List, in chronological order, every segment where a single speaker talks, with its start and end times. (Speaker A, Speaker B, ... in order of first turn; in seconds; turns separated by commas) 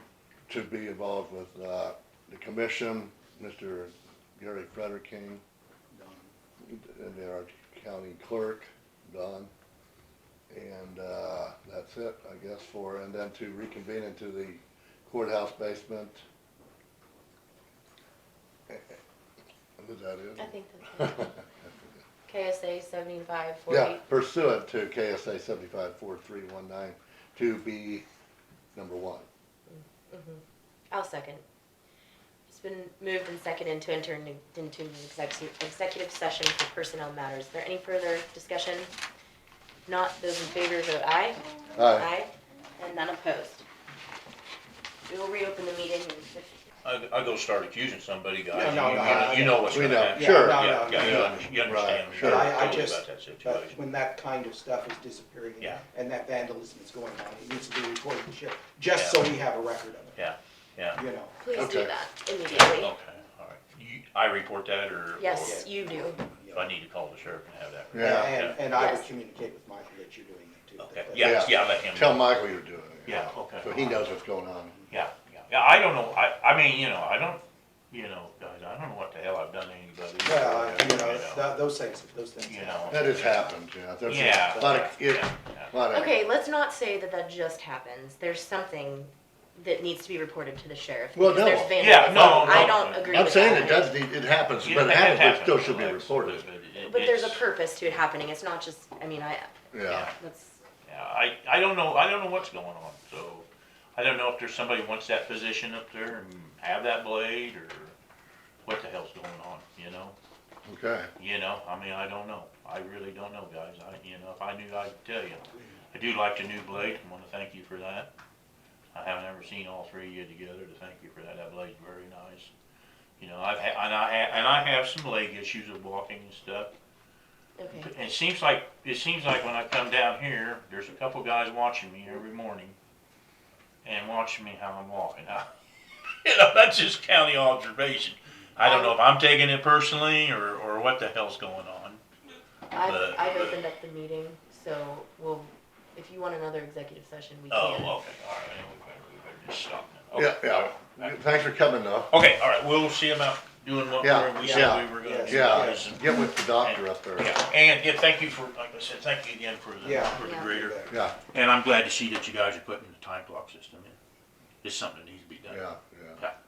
Speaker A: 0.5-5.4, Speaker B: 5.9-6.3, Speaker A: 6.6-9.5, Speaker A: 10.5-16.2, Speaker A: 18.7-19.0, Speaker A: 19.8-21.9, Speaker C: 20.4-21.3, Speaker C: 22.3-24.0, Speaker A: 23.7-28.1, Speaker A: 28.8-29.3, Speaker C: 29.7-31.4, Speaker C: 32.5-38.9, Speaker C: 39.9-43.7, Speaker A: 41.8-42.1, Speaker C: 45.1-46.5, Speaker D: 46.8-53.8, Speaker B: 48.5-51.6, Speaker A: 49.0-52.7, Speaker B: 52.1-60.3, Speaker D: 59.0-59.2, Speaker D: 60.1-61.0, Speaker B: 60.9-61.6, Speaker C: 61.4-62.9, Speaker A: 61.5-61.9, Speaker D: 62.5-65.7, Speaker C: 65.2-66.3, Speaker B: 65.4-66.7, Speaker D: 66.5-68.6, Speaker A: 67.9-68.4, Speaker B: 67.9-71.6, Speaker C: 68.7-69.1, Speaker D: 70.8-72.3, Speaker A: 71.2-74.8, Speaker D: 73.1-74.1, Speaker D: 74.9-81.5, Speaker B: 80.2-83.5, Speaker D: 82.5-83.5, Speaker A: 82.9-86.2, Speaker D: 84.0-85.8, Speaker C: 85.9-94.0, Speaker A: 91.2-96.5, Speaker D: 91.8-93.9, Speaker D: 94.6-97.5, Speaker C: 96.8-99.5, Speaker A: 99.7-100.1, Speaker D: 99.9-100.2, Speaker C: 100.1-100.6, Speaker D: 100.8-107.9, Speaker D: 108.6-110.2, Speaker A: 110.7-111.1, Speaker D: 111.2-118.1, Speaker D: 118.9-122.5, Speaker D: 123.2-126.7, Speaker C: 127.6-127.9, Speaker D: 127.8-132.8, Speaker D: 133.8-135.5, Speaker D: 136.2-142.0, Speaker C: 138.6-139.0, Speaker C: 142.7-147.9, Speaker D: 142.8-143.6, Speaker D: 147.5-151.2, Speaker A: 150.2-152.1, Speaker D: 152.1-164.0, Speaker A: 154.0-157.3, Speaker B: 154.4-155.9, Speaker B: 159.8-160.9, Speaker C: 160.2-160.5, Speaker A: 160.9-161.2, Speaker D: 164.6-165.7, Speaker A: 165.5-166.2